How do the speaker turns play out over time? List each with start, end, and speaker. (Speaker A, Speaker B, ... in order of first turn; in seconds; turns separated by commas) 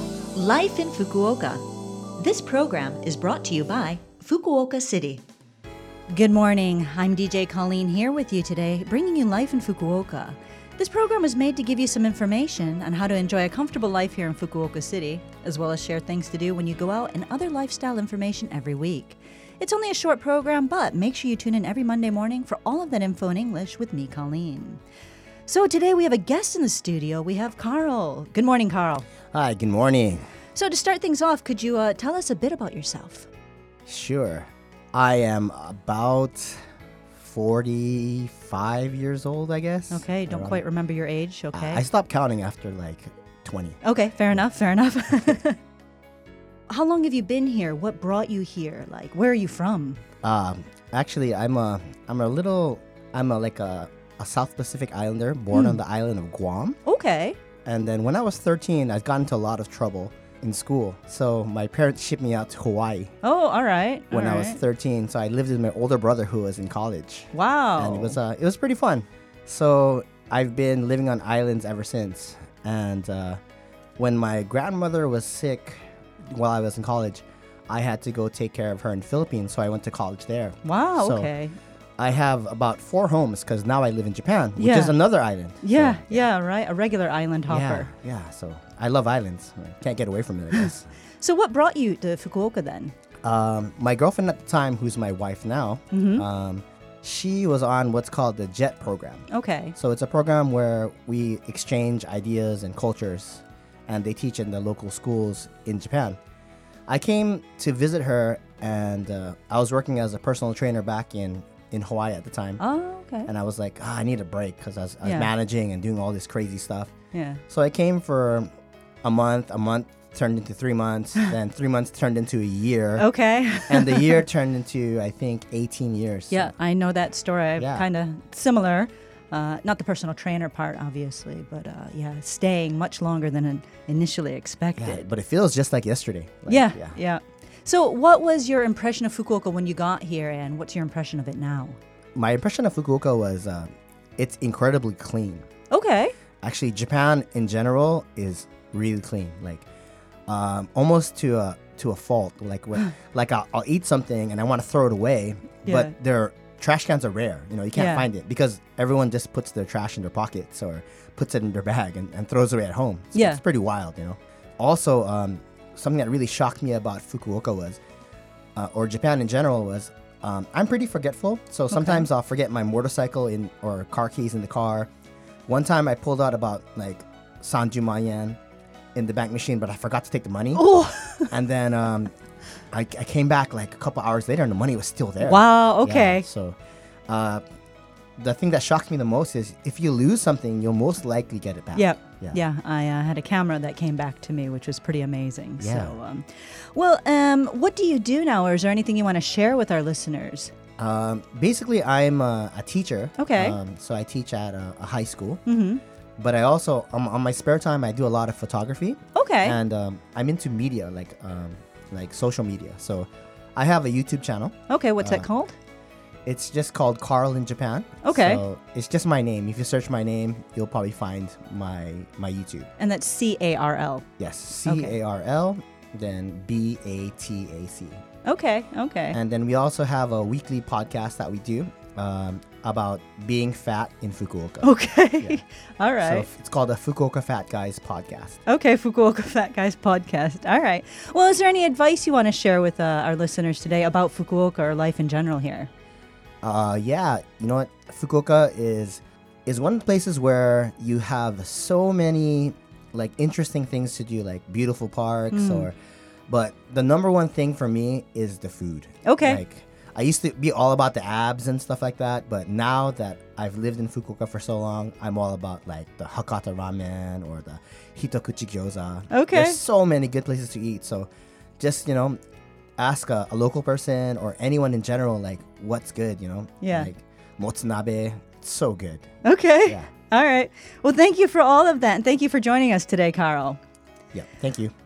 Speaker A: 0.3-1.6, Speaker A: 2.1-5.2, Speaker A: 6.1-24.8, Speaker A: 25.4-29.1, Speaker B: 29.3-30.2, Speaker A: 30.5-33.3, Speaker B: 33.9-36.6, Speaker B: 37.1-40.6, Speaker A: 39.9-41.8, Speaker B: 41.5-43.8, Speaker A: 43.8-45.6, Speaker A: 46.7-50.0, Speaker B: 50.2-56.8, Speaker A: 55.5-55.8, Speaker A: 56.8-57.4, Speaker B: 57.6-63.1, Speaker A: 63.2-64.6, Speaker B: 64.1-73.4, Speaker A: 67.3-68.2, Speaker B: 74.0-75.8, Speaker B: 76.3-81.3, Speaker A: 80.6-81.5, Speaker B: 82.0-86.3, Speaker A: 84.5-85.0, Speaker A: 85.6-87.9, Speaker B: 87.5-90.9, Speaker A: 90.5-92.9, Speaker B: 93.2-106.2, Speaker A: 95.9-96.2, Speaker A: 99.3-99.7, Speaker B: 106.9-112.6, Speaker A: 112.6-113.3, Speaker B: 113.2-116.9, Speaker A: 115.0-115.3, Speaker A: 117.1-117.4, Speaker B: 117.5-118.5, Speaker B: 119.0-123.1, Speaker A: 123.0-124.2, Speaker B: 123.7-126.5, Speaker A: 126.3-135.0, Speaker B: 127.6-127.8, Speaker B: 134.8-137.0, Speaker A: 136.5-141.8, Speaker B: 142.2-145.5, Speaker A: 145.7-146.1, Speaker B: 146.4-149.7, Speaker B: 150.3-167.8, Speaker A: 155.7-155.9, Speaker A: 157.7-158.1, Speaker A: 163.1-163.4, Speaker B: 168.6-174.9, Speaker A: 171.7-172.1, Speaker B: 175.5-178.4, Speaker B: 178.9-180.7, Speaker A: 180.5-181.3, Speaker B: 181.3-182.1, Speaker B: 182.7-186.6, Speaker A: 185.2-186.2, Speaker B: 187.1-187.4, Speaker B: 188.2-192.4, Speaker A: 191.7-200.5, Speaker B: 195.6-196.0, Speaker B: 200.8-205.4, Speaker A: 203.2-203.6, Speaker A: 205.4-205.8, Speaker B: 206.2-215.3, Speaker A: 209.1-209.6, Speaker A: 214.7-215.6, Speaker B: 216.2-222.7, Speaker A: 218.0-218.4, Speaker A: 222.8-224.1, Speaker B: 224.2-228.0, Speaker A: 224.7-225.0, Speaker A: 228.2-229.2, Speaker B: 229.1-235.4, Speaker A: 234.6-236.3, Speaker B: 236.0-238.4, Speaker A: 238.4-245.7, Speaker B: 246.4-255.7, Speaker A: 255.3-255.7, Speaker B: 256.3-271.1, Speaker A: 259.0-259.4, Speaker A: 269.1-269.6, Speaker B: 271.6-272.2, Speaker B: 272.8-279.1, Speaker A: 276.6-276.9, Speaker A: 279.2-283.6, Speaker B: 279.6-279.9, Speaker B: 284.1-284.7